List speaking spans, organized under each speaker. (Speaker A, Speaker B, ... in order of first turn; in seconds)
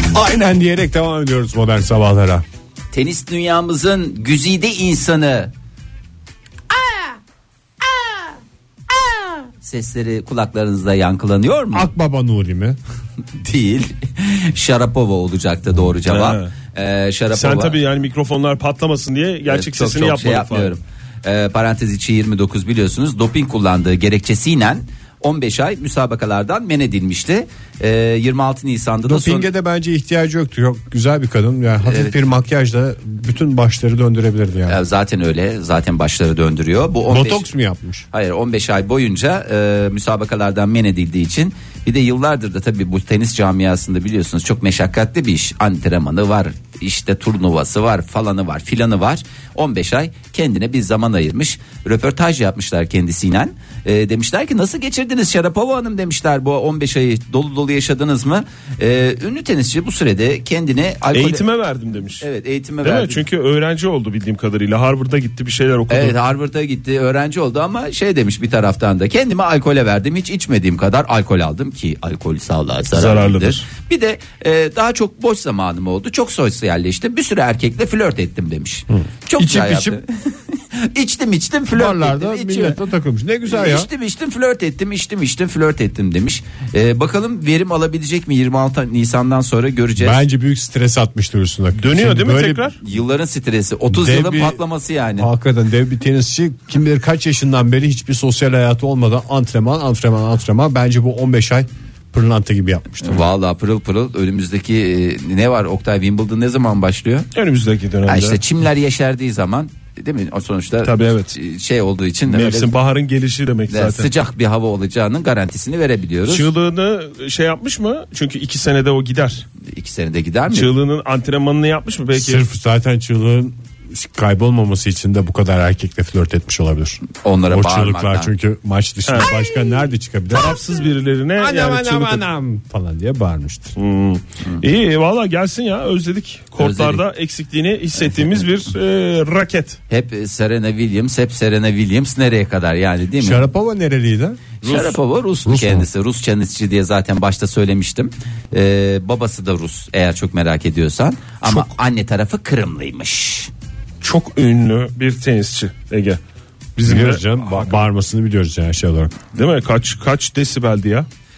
Speaker A: 0.1-2.4, 11.7-12.8, 29.1-34.8, 37.1-38.0, 78.9-80.0, 81.7-83.9, 90.0-92.7, 93.9-94.6, 95.2-103.2, 122.1-130.6, 131.3-133.8, 143.2-145.8, 156.8-159.1
Speaker B: 2.9-5.5, 9.6-11.9, 13.3-17.8, 19.5-29.5, 31.8-32.1, 34.7-37.5, 38.1-61.4, 62.2-63.2, 65.9-82.8, 83.5-90.2, 92.8-95.3, 103.0-107.3, 108.1-112.7, 113.7-116.5, 119.7-120.7, 127.2-128.3, 136.6-137.0, 138.1-138.4, 139.9-143.4, 144.6-153.5
Speaker C: 16.0-16.5, 17.3-20.7, 61.1-62.2, 62.8-66.2, 72.9-73.7, 91.7-92.8, 107.3-108.4, 110.8-111.3, 112.3-114.1, 116.3-119.5, 120.5-122.4, 129.1-129.3, 130.3-132.2, 133.8-139.8, 154.0-156.2, 156.8-157.8, 159.3-161.1